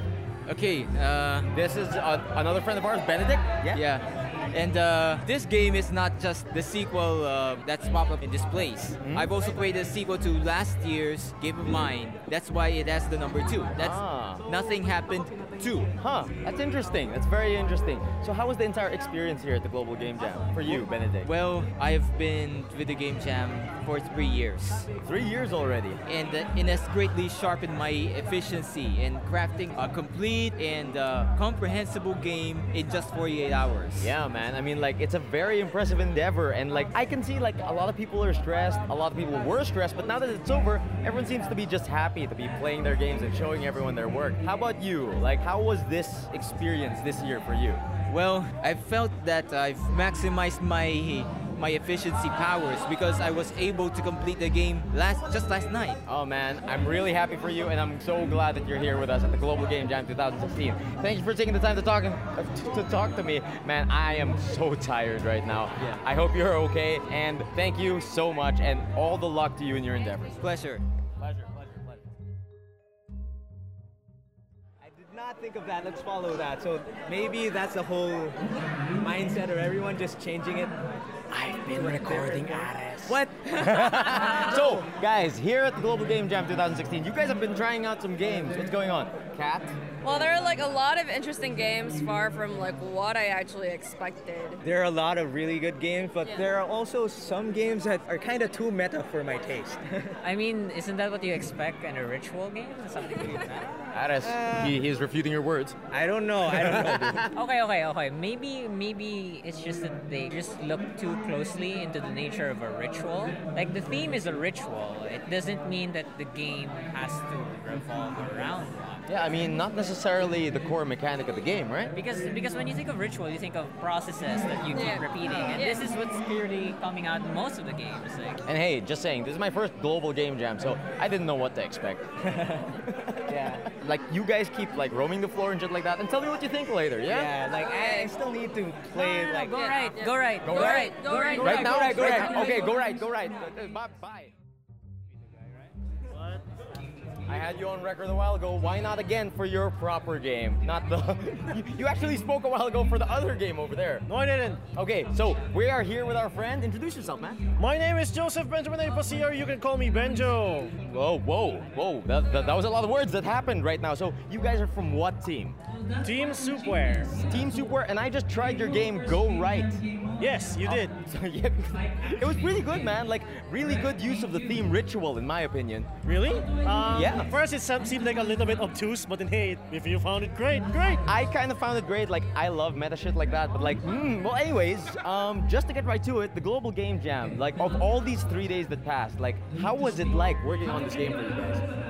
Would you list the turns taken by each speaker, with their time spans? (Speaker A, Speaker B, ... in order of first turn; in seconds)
Speaker A: 0.5-1.5, 3.8-15.9, 20.7-24.9, 26.1-34.1, 48.1-56.0, 70.4-70.8
Speaker B: 1.5-3.8, 9.0-9.3, 13.7-14.5, 15.9-21.3, 25.0-26.0, 34.0-47.8, 56.0-70.4, 83.0-89.8, 103.9-105.8, 106.5-107.1, 119.1-121.9, 128.5-139.6, 140.4-144.3, 147.3-154.1, 154.7-157.4, 160.8-165.6, 167.2-169.8, 170.6-175.9, 176.9-177.3, 181.1-191.7
Speaker C: 74.8-78.4, 79.0-80.8, 81.3-83.3, 94.6-100.1, 105.9-107.2
Speaker D: 90.0-94.6, 124.8-125.8, 139.6-141.4
Speaker E: 100.2-103.7, 107.3-119.0, 122.0-128.4, 137.2-137.5, 139.0-142.5
Speaker F: 146.1-146.4, 154.1-154.6, 157.6-160.8, 166.0-167.2, 170.2-170.9, 176.1-181.0